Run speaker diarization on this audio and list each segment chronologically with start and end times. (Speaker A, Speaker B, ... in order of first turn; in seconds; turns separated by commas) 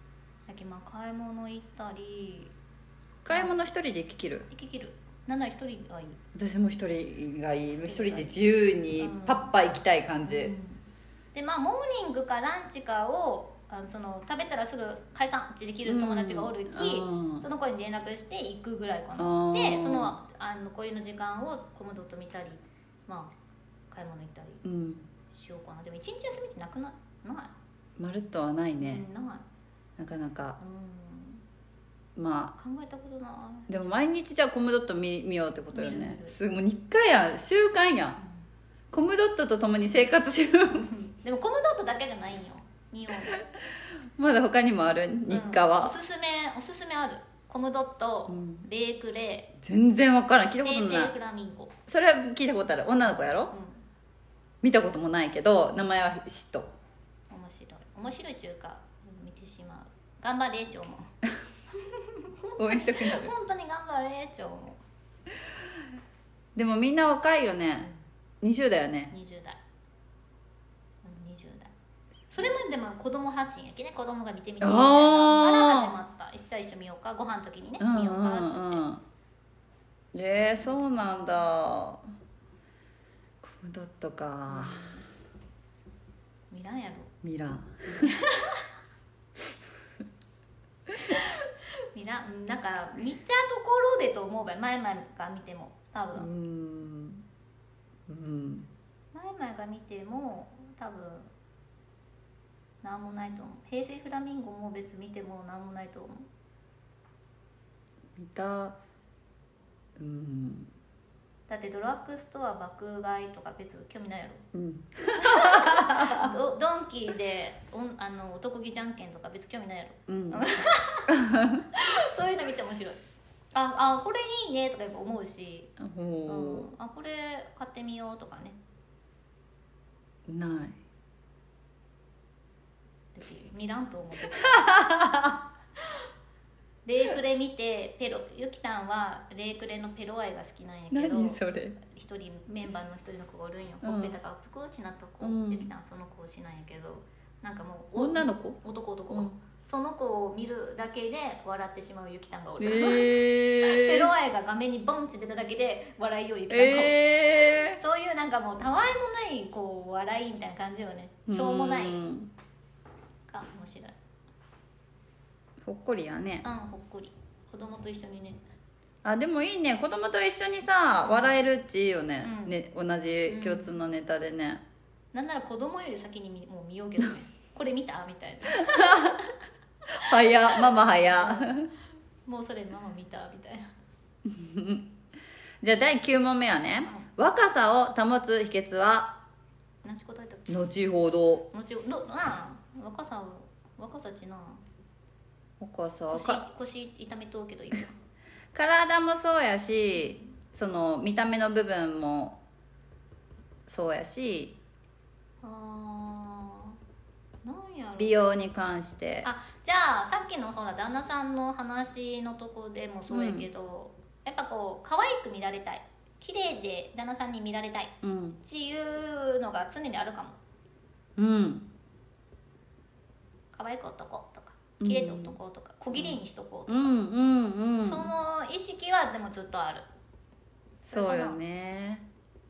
Speaker A: 0.5-2.5, Speaker B: 3.2-4.5, Speaker A: 3.3-3.5, Speaker A: 4.5-6.2, Speaker B: 6.3-10.5, Speaker A: 7.8-8.4, Speaker A: 9.0-9.5, Speaker A: 10.2-10.8, Speaker A: 11.3-23.3, Speaker B: 15.8-17.4, Speaker B: 19.2-20.1, Speaker A: 23.9-24.6, Speaker B: 24.6-25.1, Speaker A: 25.3-27.5, Speaker B: 28.0-29.0, Speaker A: 28.8-29.4, Speaker B: 30.0-30.6, Speaker A: 30.6-31.4, Speaker B: 32.1-32.5, Speaker A: 32.6-34.1, Speaker B: 33.7-38.2, Speaker A: 35.7-36.3, Speaker A: 38.2-38.4, Speaker B: 38.9-40.9, Speaker A: 40.9-43.6, Speaker B: 44.2-45.9, Speaker A: 45.3-49.5, Speaker B: 48.3-48.7, Speaker B: 49.6-51.1, Speaker A: 50.6-51.7, Speaker B: 51.9-53.5, Speaker A: 53.5-53.8, Speaker B: 54.6-56.7, Speaker A: 57.3-61.1, Speaker A: 61.8-64.8, Speaker B: 62.6-63.3, Speaker B: 66.5-67.9, Speaker B: 68.4-69.1, Speaker A: 69.1-69.6, Speaker A: 71.0-71.7, Speaker A: 72.3-78.9, Speaker B: 74.6-75.9, Speaker B: 77.8-79.0, Speaker B: 80.1-82.0, Speaker A: 80.6-81.5, Speaker B: 83.4-84.9, Speaker A: 84.5-85.0, Speaker A: 86.5-87.1, Speaker B: 87.2-88.1, Speaker A: 88.0-88.6, Speaker A: 91.9-96.3, Speaker B: 96.2-97.2, Speaker B: 98.1-98.7, Speaker A: 99.1-101.3, Speaker A: 102.8-106.3, Speaker B: 108.2-108.8, Speaker B: 110.0-110.7, Speaker A: 111.5-114.4, Speaker B: 114.5-116.3, Speaker A: 115.2-121.1, Speaker B: 120.1-120.5, Speaker B: 121.1-121.7, Speaker A: 121.7-123.0, Speaker A: 123.5-125.7, Speaker B: 125.8-126.7, Speaker A: 126.3-128.6, Speaker B: 130.3-130.8, Speaker A: 133.1-134.6, Speaker B: 134.6-135.4, Speaker A: 136.8-162.0, Speaker B: 140.9-141.8, Speaker B: 143.8-144.2, Speaker B: 145.2-145.7, Speaker B: 147.9-149.3, Speaker B: 152.6-154.1, Speaker B: 156.5-157.8, Speaker B: 161.3-162.3, Speaker A: 163.3-163.9, Speaker B: 165.6-166.4, Speaker A: 166.4-168.4, Speaker B: 169.0-174.6, Speaker A: 171.0-171.4, Speaker A: 172.2-172.6, Speaker A: 173.3-173.7, Speaker A: 175.1-179.3, Speaker B: 178.6-179.2, Speaker B: 180.0-181.7, Speaker A: 180.1-181.5, Speaker A: 182.2-183.7, Speaker B: 184.2-184.9, Speaker B: 185.6-189.2, Speaker A: 186.8-187.1, Speaker A: 189.8-190.5, Speaker B: 190.5-191.4, Speaker A: 191.5-194.6, Speaker B: 195.6-196.4, Speaker A: 196.1-198.0, Speaker B: 198.5-202.4, Speaker B: 203.7-204.6, Speaker A: 205.4-206.7, Speaker A: 207.4-208.2, Speaker B: 208.0-209.3, Speaker A: 209.2-220.4, Speaker B: 213.1-213.5, Speaker B: 218.0-218.4, Speaker B: 221.2-221.6, Speaker A: 223.5-227.0, Speaker B: 224.8-225.4, Speaker B: 225.9-228.1, Speaker A: 227.8-229.9, Speaker A: 230.8-231.4, Speaker B: 230.9-232.1